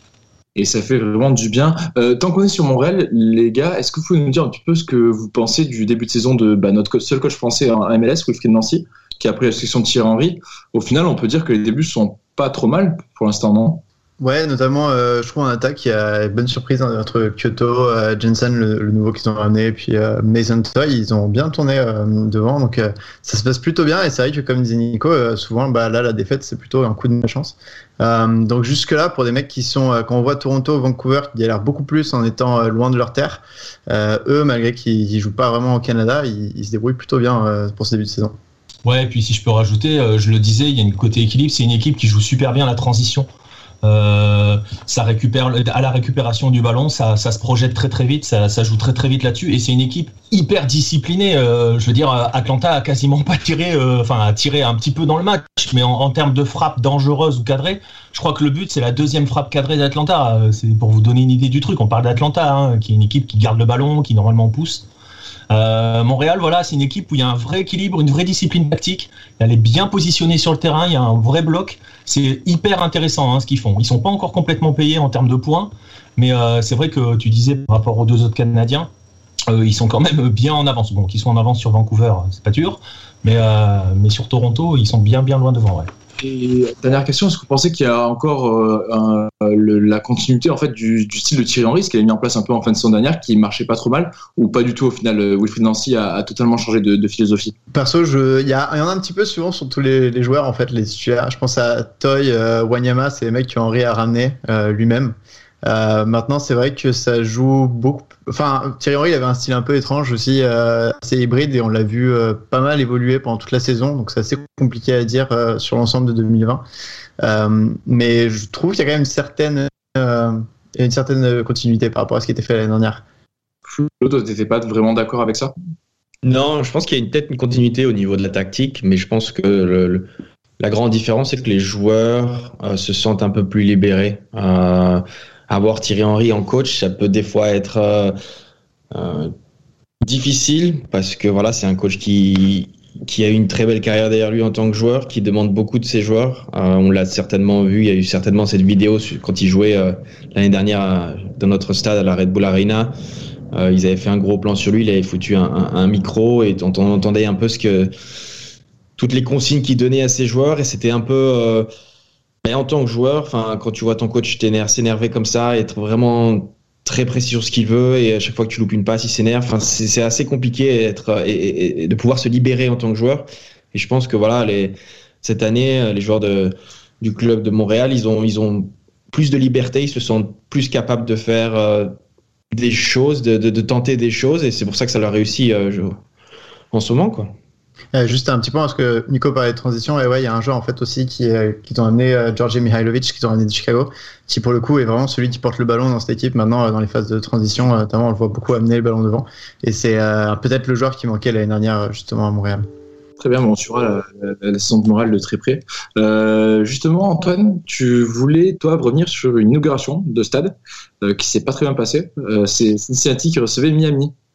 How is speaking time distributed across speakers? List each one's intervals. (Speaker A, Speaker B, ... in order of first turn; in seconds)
Speaker A: 0.6-13.8, 86.2-97.5, 123.7-125.5, 203.2-214.1
Speaker B: 14.2-38.4, 97.7-105.2, 105.7-116.6, 117.2-123.0, 187.9-202.7
Speaker C: 38.9-43.3, 43.8-64.8, 65.5-78.9, 79.5-85.9
Speaker D: 126.2-138.2, 138.9-139.3, 140.0-153.0, 153.5-157.9, 159.0-161.7, 162.4-181.9, 182.5-186.0, 186.7-187.3